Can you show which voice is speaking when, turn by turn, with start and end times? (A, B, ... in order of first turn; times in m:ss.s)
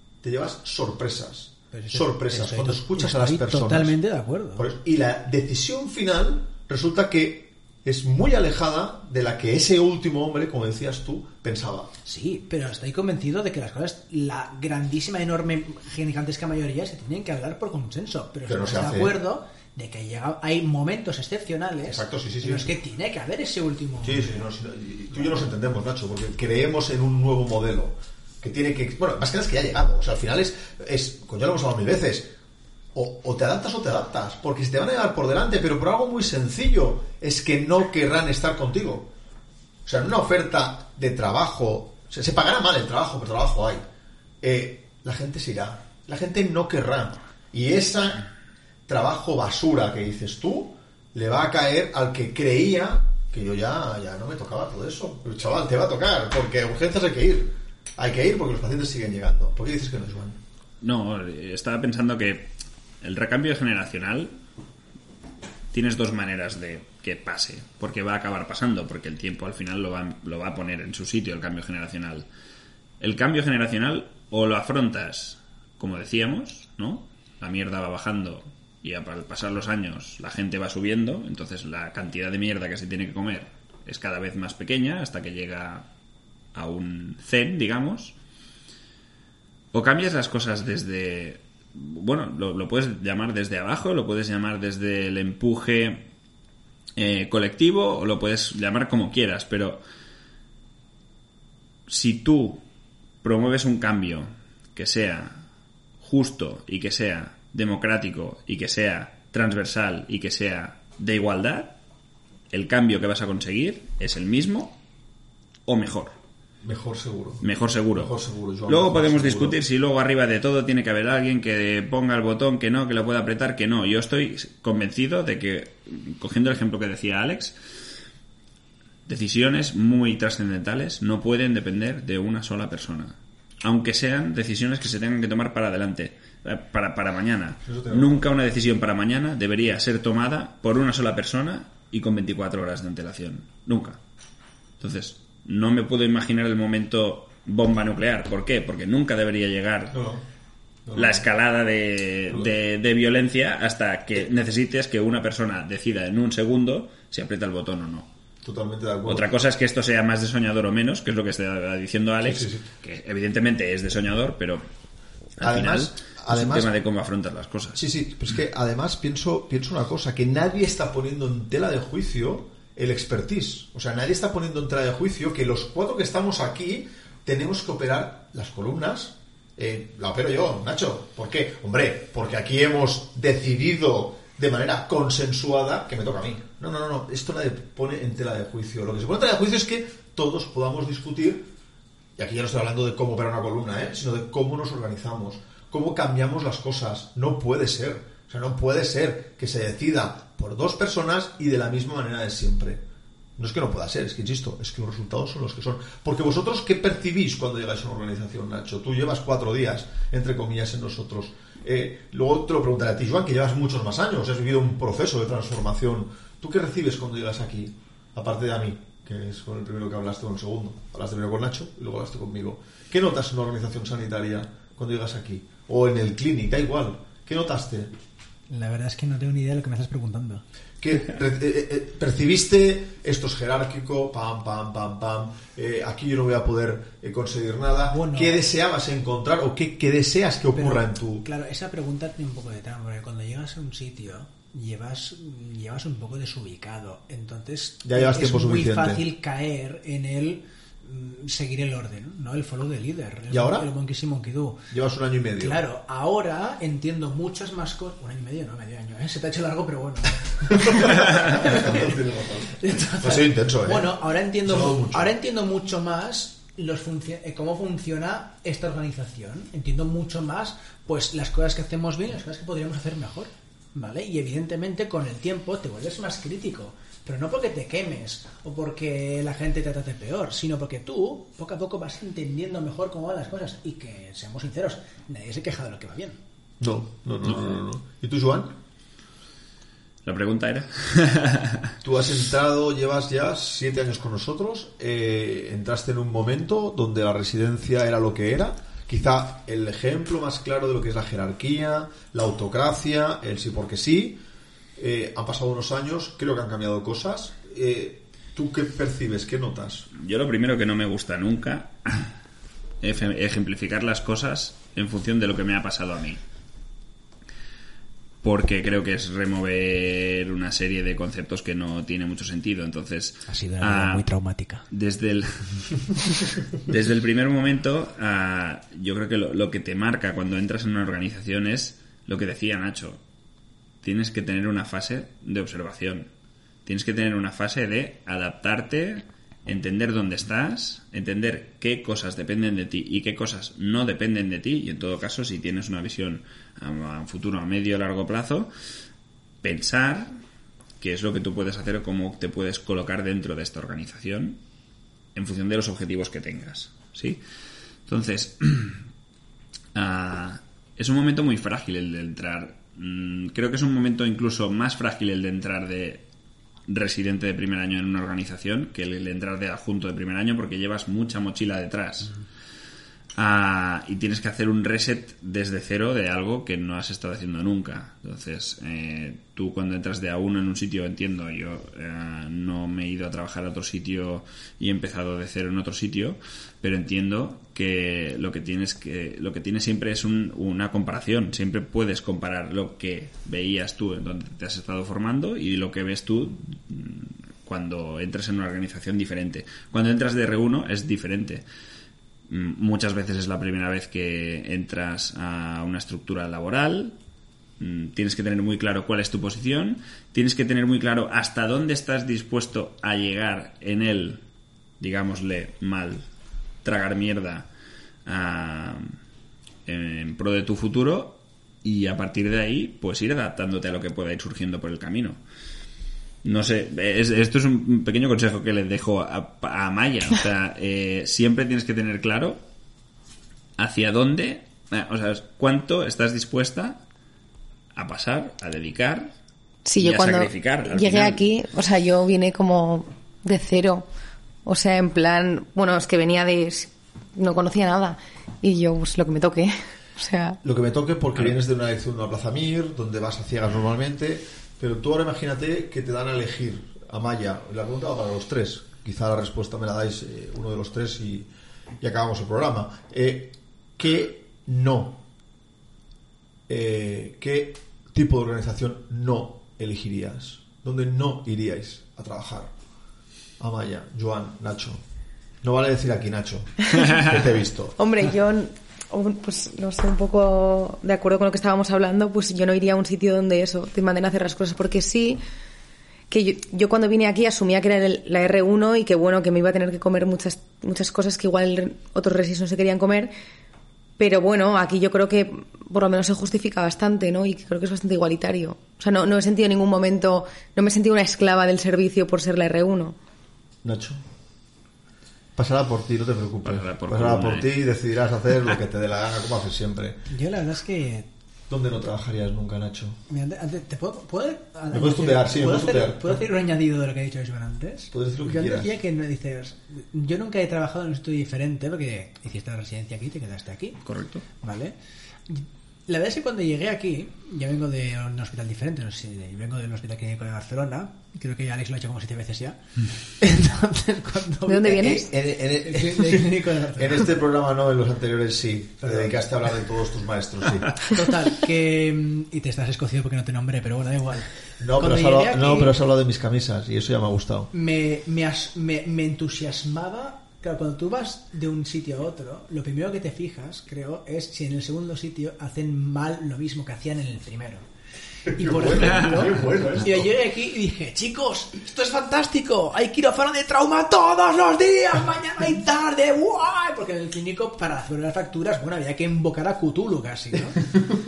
0:00.2-0:04.0 A
0:01.7-0:04.7 B
0:04.6-0:11.9 A
0:12.0-0:24.4 B
0:18.4-0:19.2 A
0:21.8-0:22.7 A
0:24.0-0:32.3 A
0:32.9-0:39.1 A
0:39.8-0:43.8 A
0:44.4-0:48.3 A
0:48.9-1:00.4 A
1:00.8-1:04.3 C
1:05.7-1:12.2 C
1:13.0-1:25.9 C
1:26.5-1:28.2 C
1:29.7-1:36.1 C
1:37.0-1:39.8 C
1:41.9-1:42.6 C
1:43.2-1:45.4 C
1:46.0-1:51.8 C
1:52.5-1:54.8 C
1:55.7-1:56.2 C
1:56.6-1:59.6 A
1:57.4-1:58.1 C
1:58.7-2:07.5 C
2:09.0-2:24.0 C
2:17.6-2:18.3 A
2:24.8-2:30.0 C
2:29.9-2:30.2 A
2:30.8-2:31.2 A
2:30.9-2:38.1 C
2:38.4-2:39.3 A
2:39.0-2:44.6 C
2:42.2-2:42.6 A
2:45.4-2:47.8 C
2:45.4-2:46.7 A
2:47.7-3:11.4 A
3:12.2-3:22.8 A
3:23.4-3:47.9 A
3:48.5-3:50.4 B
3:50.8-4:01.3 A
3:57.9-3:58.4 B
4:00.5-4:14.7 B
4:07.8-4:09.0 A
4:13.3-4:13.7 A
4:14.7-4:15.6 A
4:15.4-4:22.0 B
4:20.5-4:25.1 A
4:22.6-4:46.2 B
4:46.6-4:48.6 A
4:47.2-4:47.6 C
4:50.0-4:51.7 C
4:51.8-5:04.2 A
5:04.8-5:09.9 A
5:09.9-5:12.1 C
5:12.8-5:16.2 C
5:18.2-5:24.0 C
5:23.3-5:24.6 B
5:24.7-5:25.9 C
5:26.5-5:33.0 C
5:33.8-5:36.1 C
5:36.6-5:48.5 C
5:49.4-5:50.1 C
5:50.8-5:54.4 C
5:55.1-5:57.2 C
5:57.9-5:58.8 C
5:59.7-6:06.0 C
6:06.7-6:12.2 C
6:13.2-6:41.4 C
6:42.3-6:47.0 C
6:47.6-6:54.2 C
6:54.8-6:56.0 C
6:56.6-6:57.5 C
6:58.0-6:59.0 C
6:59.6-7:05.2 C
7:06.2-7:12.4 C
7:13.6-7:16.8 C
7:17.7-7:19.1 C
7:19.6-7:23.8 D
7:19.8-7:21.2 C
7:24.4-7:30.4 D
7:30.4-7:41.3 A
7:41.8-7:45.0 A
7:46.5-7:52.5 A
7:53.4-7:54.8 A
7:55.4-7:57.8 A
7:57.8-8:05.2 D
8:06.1-8:13.1 D
8:14.0-8:23.0 D
8:23.6-8:24.0 A
8:25.4-8:30.0 A
8:26.4-8:27.5 C
8:30.1-8:31.1 B
8:31.5-8:33.0 A
8:33.1-8:43.8 B
8:34.7-8:36.2 A
8:37.9-8:38.7 A
8:43.8-8:44.2 C
8:44.4-8:44.7 B
8:45.3-8:57.1 B
8:54.5-8:55.0 D
8:54.8-9:00.8 A
9:00.9-9:05.7 B
9:04.6-9:07.5 A
9:07.5-9:17.7 B
9:18.3-9:30.6 B
9:18.4-9:20.0 A
9:18.8-9:19.2 C